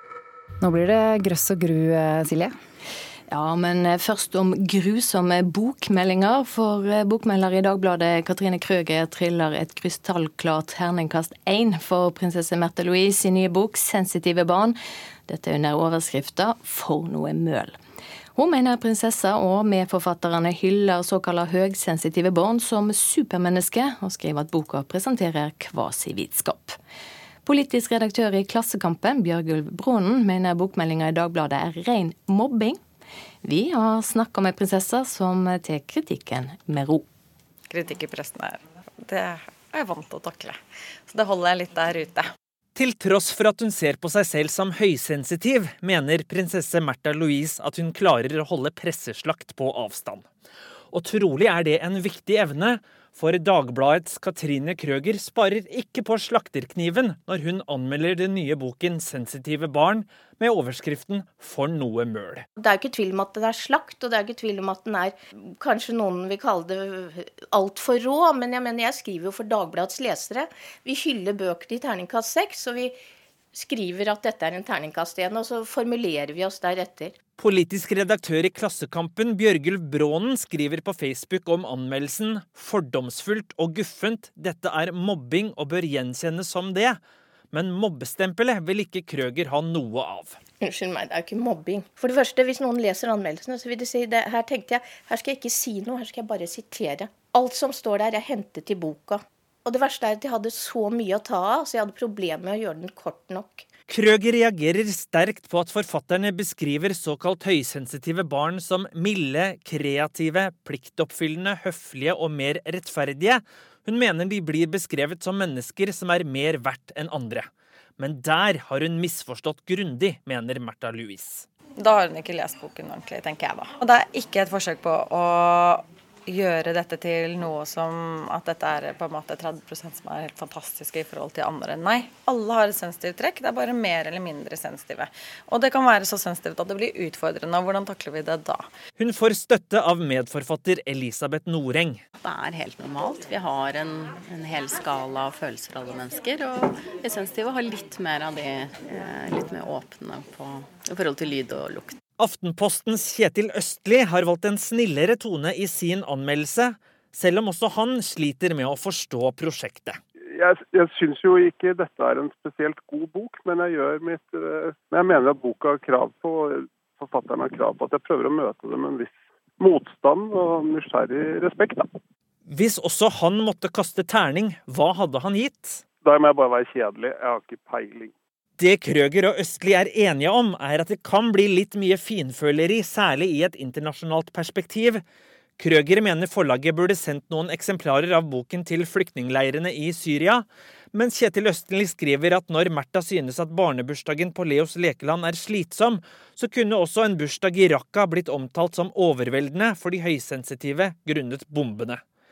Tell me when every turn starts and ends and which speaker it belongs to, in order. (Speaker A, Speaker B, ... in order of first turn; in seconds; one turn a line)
Speaker A: 0.6-2.5
Speaker B: 3.3-14.8
Speaker B: 15.3-17.7
Speaker B: 18.4-26.8
Speaker B: 27.4-32.8
Speaker B: 33.4-37.0
Speaker C: 37.7-42.3
Speaker D: 42.8-50.2
Speaker D: 50.9-62.4
Speaker E: 62.6-73.0
Speaker E: 73.5-77.1
Speaker D: 77.4-87.0
Speaker D: 87.5-90.4
Speaker E: 90.6-103.6
Speaker D: 103.9-117.5
Speaker D: 118.0-121.5
Speaker C: 121.8-138.6
Speaker D: 139.0-142.0
Speaker F: 142.2-152.0
Speaker D: 152.2-160.0
Speaker G: 160.3-171.9
Speaker D: 172.5-175.8
Speaker G: 176.0-178.1
Speaker D: 178.6-185.0
Speaker D: 185.6-202.0